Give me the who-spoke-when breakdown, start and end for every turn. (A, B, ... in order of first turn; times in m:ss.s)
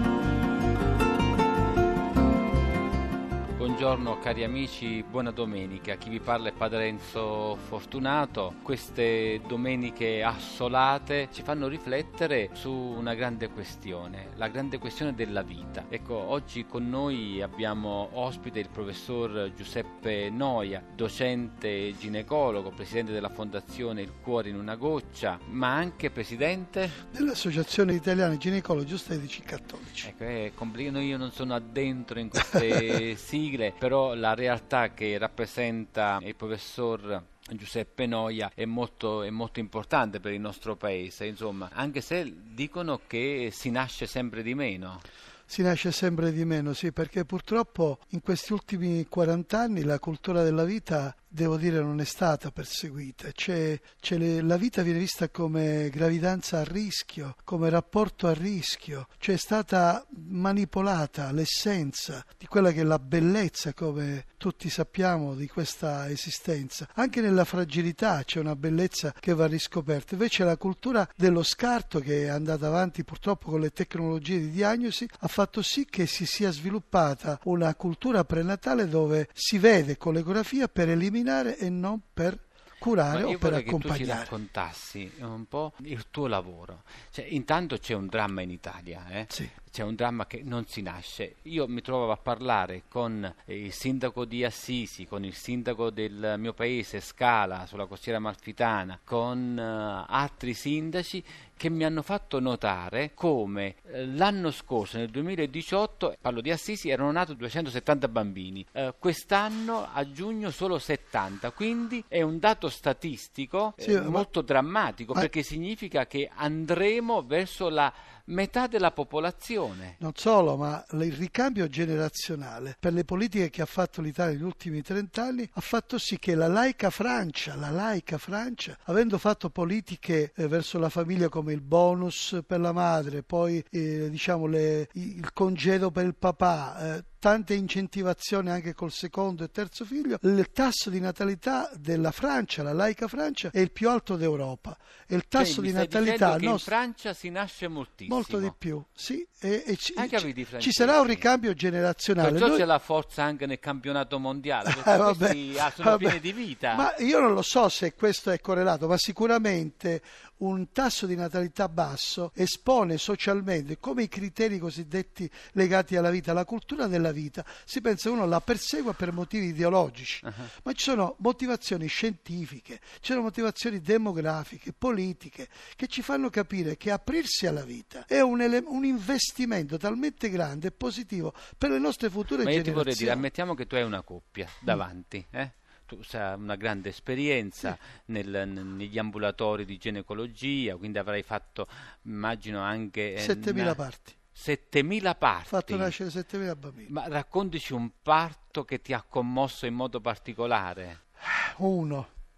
0:03.6-0:27.0 A
0:27.1-0:30.1 B
0:30.0-0:45.0 A
0:45.5-1:24.3 B
1:23.1-2:00.0 A
1:53.8-1:54.3 B
2:00.0-2:26.7 B
2:25.4-2:28.5 A
2:28.1-2:32.6 B
2:30.0-2:31.3 A
2:32.2-2:36.9 A
2:34.6-3:03.3 B
3:02.4-3:13.8 A
3:13.2-3:14.2 B
3:14.3-3:15.9 A
3:15.5-3:16.9 B
3:16.9-3:21.0 A
3:21.2-3:22.1 B